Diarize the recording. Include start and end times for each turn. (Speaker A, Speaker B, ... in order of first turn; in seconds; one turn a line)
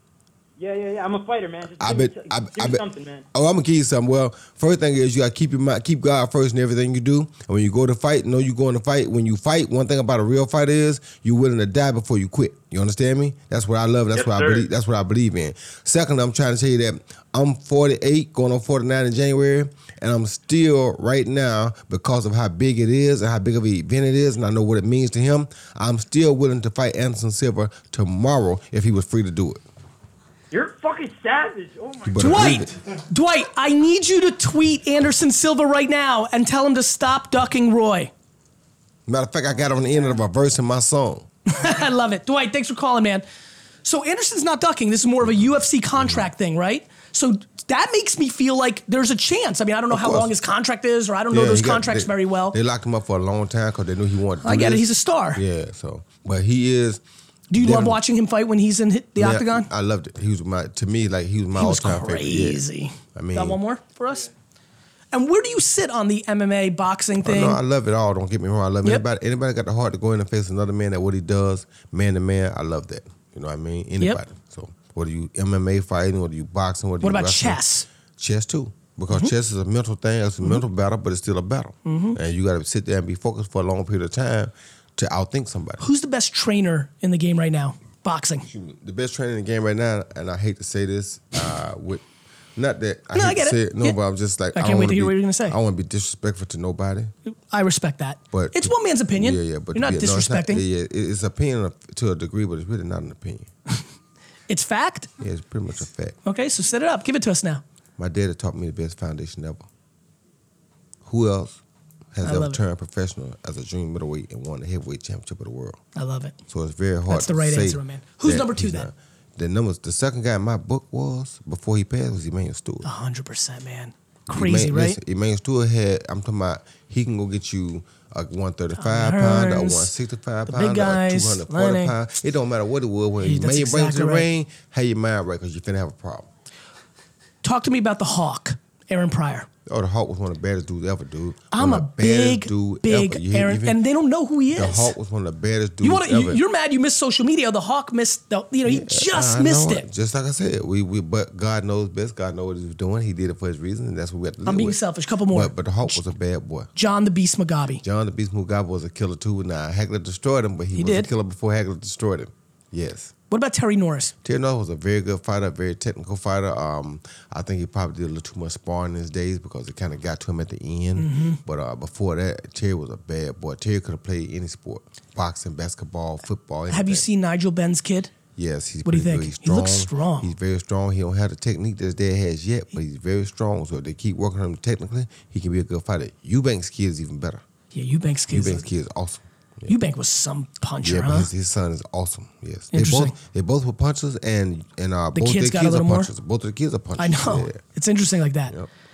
Speaker A: 0.6-3.3
Speaker B: 1.8-29.6
Speaker A: 14.1-14.7
Speaker A: 30.5-32.6
Speaker B: 32.1-32.7
Speaker C: 32.2-38.1
Speaker B: 39.1-41.3
Speaker C: 41.5-43.2
Speaker C: 43.9-52.6
Speaker B: 46.0-46.2
Speaker B: 49.9-50.3
Speaker B: 51.3-57.0
Speaker C: 54.4-55.4
Speaker C: 57.5-59.7
Speaker B: 57.5-58.0
Speaker B: 59.2-62.6
Speaker C: 61.5-64.3
Speaker B: 63.1-63.6
Speaker C: 65.1-67.6
Speaker B: 67.2-77.6
Speaker C: 77.0-77.9
Speaker B: 78.2-85.8
Speaker C: 81.8-82.2
Speaker C: 85.8-88.5
Speaker B: 88.5-92.0
Speaker B: 92.5-97.1
Speaker C: 93.1-94.0
Speaker C: 94.5-95.6
Speaker C: 97.3-100.6
Speaker B: 98.3-103.5
Speaker C: 104.5-105.1
Speaker B: 105.2-106.2
Speaker C: 106.2-107.6
Speaker B: 108.0-109.7
Speaker B: 111.0-111.6
Speaker B: 112.1-115.8
Speaker C: 112.2-112.6
Speaker C: 116.0-116.4
Speaker B: 116.5-122.9
Speaker C: 117.1-118.9
Speaker C: 122.8-125.0
Speaker B: 124.3-136.3
Speaker C: 128.8-129.9
Speaker C: 130.5-131.9
Speaker C: 133.2-134.3
Speaker C: 137.4-139.5
Speaker B: 139.7-143.8
Speaker C: 141.5-144.9
Speaker B: 144.5-146.4
Speaker C: 145.8-149.9
Speaker B: 148.7-156.7
Speaker C: 154.5-156.0
Speaker C: 156.8-157.8
Speaker B: 157.8-163.1
Speaker C: 160.8-161.1
Speaker C: 163.3-164.1
Speaker B: 164.2-177.1
Speaker C: 171.0-171.4
Speaker C: 176.7-178.1
Speaker B: 178.4-187.4
Speaker C: 178.8-180.3
Speaker C: 187.7-188.7
Speaker B: 188.3-189.7
Speaker C: 189.7-191.3
Speaker B: 190.8-197.6
Speaker C: 192.7-193.2
Speaker C: 195.1-196.1
Speaker C: 197.0-198.6